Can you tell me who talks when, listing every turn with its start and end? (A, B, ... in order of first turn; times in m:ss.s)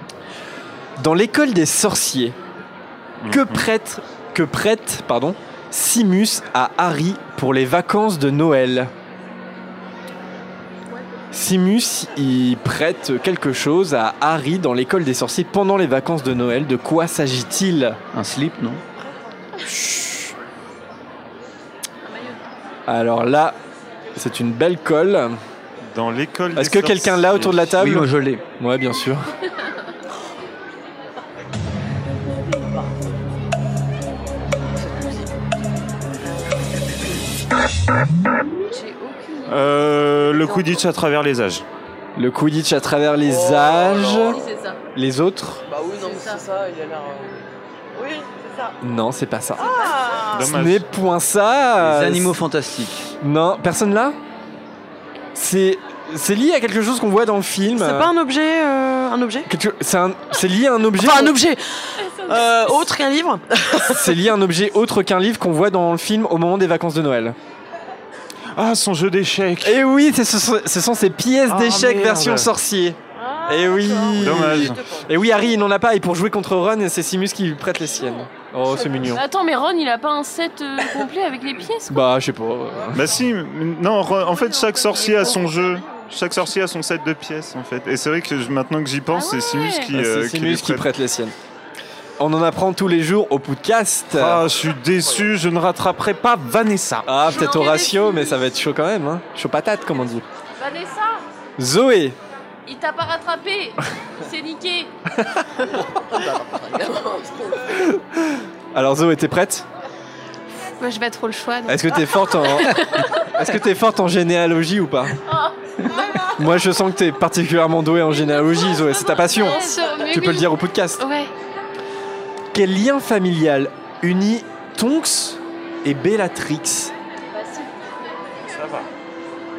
0:01.0-0:02.4 A
0:03.2-0:03.7 B
0:03.3-0:08.9 A
0:11.3-0:18.0 A
0:18.1-0:18.8 C
0:22.9-0:23.6 A
0:24.2-0:25.4 A
0:25.9-0:27.6 B
0:26.6-0:29.3 A
0:27.6-0:28.4 C
0:34.8-0:35.3 D
0:38.7-0:39.6 E
0:39.5-0:41.6 B
0:40.3-0:40.8 D
0:42.2-0:44.4 A
0:43.2-0:44.5 D
0:44.3-0:44.8 E
0:45.0-0:45.6 A
0:45.7-0:47.4 D
0:46.1-0:46.4 E
0:48.0-0:48.7 D
0:48.8-0:49.9 A
0:49.6-0:50.5 D
0:50.3-0:50.9 B
0:50.4-0:52.4 A
0:51.8-0:53.1 C
0:53.2-0:54.2 A
0:55.4-0:58.1 A
0:57.7-0:59.5 D
0:59.5-1:01.3 A
1:01.0-1:04.1 D
1:02.0-1:02.8 E
1:03.9-1:07.4 A
1:08.6-1:09.8 B
1:09.6-1:19.2 A
1:11.5-1:12.5 B
1:13.1-1:15.6 D
1:14.2-1:14.8 B
1:18.7-1:19.1 D
1:19.1-1:22.0 E
1:21.9-1:23.1 A
1:22.9-1:30.9 B
1:24.3-1:26.1 D
1:25.1-1:25.4 E
1:29.1-1:29.9 E
1:29.9-1:31.3 A
1:32.2-1:34.4 A
1:34.1-1:37.1 B
1:37.1-1:40.2 A
1:37.3-1:38.4 E
1:40.6-1:41.2 E
1:41.6-1:42.2 A
1:42.7-1:44.9 E
1:45.8-1:47.7 D
1:47.8-1:49.7 A
1:50.8-1:52.8 F
1:51.7-1:52.8 A
1:53.3-1:55.2 A
1:56.4-2:01.0 A
1:58.5-2:00.4 E
1:59.3-2:01.3 F
2:02.5-2:06.9 A
2:08.5-2:08.9 B